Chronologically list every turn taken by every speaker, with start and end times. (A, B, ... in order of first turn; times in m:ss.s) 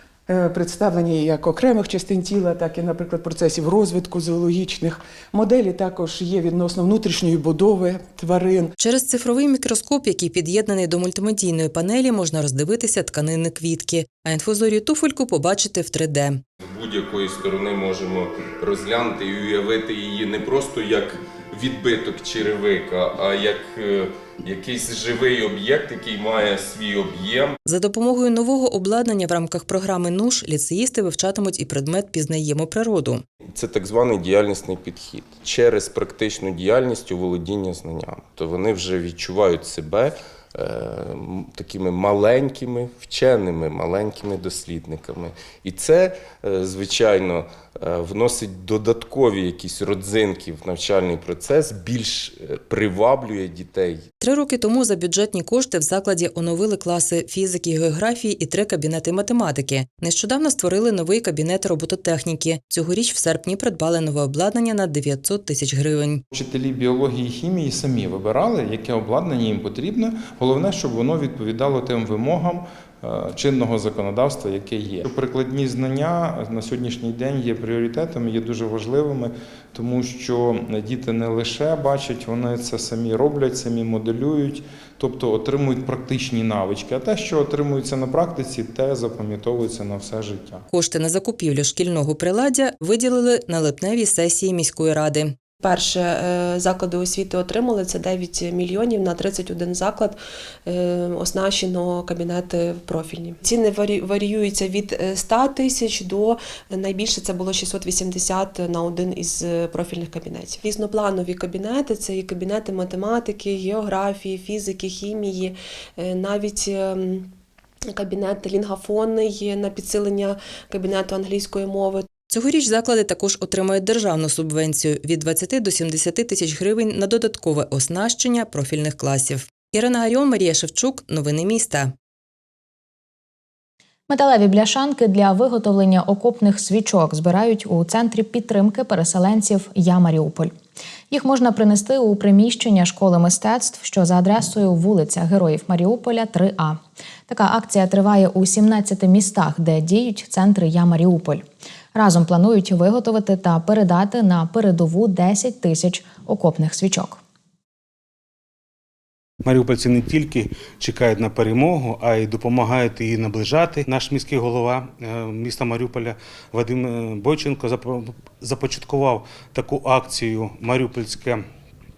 0:00.3-0:08.7 A
0:08.8-0:16.4 B
0:16.6-0:27.5 C
0:27.7-0:33.2 B
0:33.5-0:54.0 C
0:54.2-1:06.2 B
1:06.3-1:30.6 D
1:30.7-1:35.4 B
1:35.6-1:57.3 E
1:57.9-2:02.1 E
2:02.2-2:11.9 B
2:14.1-2:20.5 F
2:21.1-2:37.2 F
2:39.4-2:51.4 G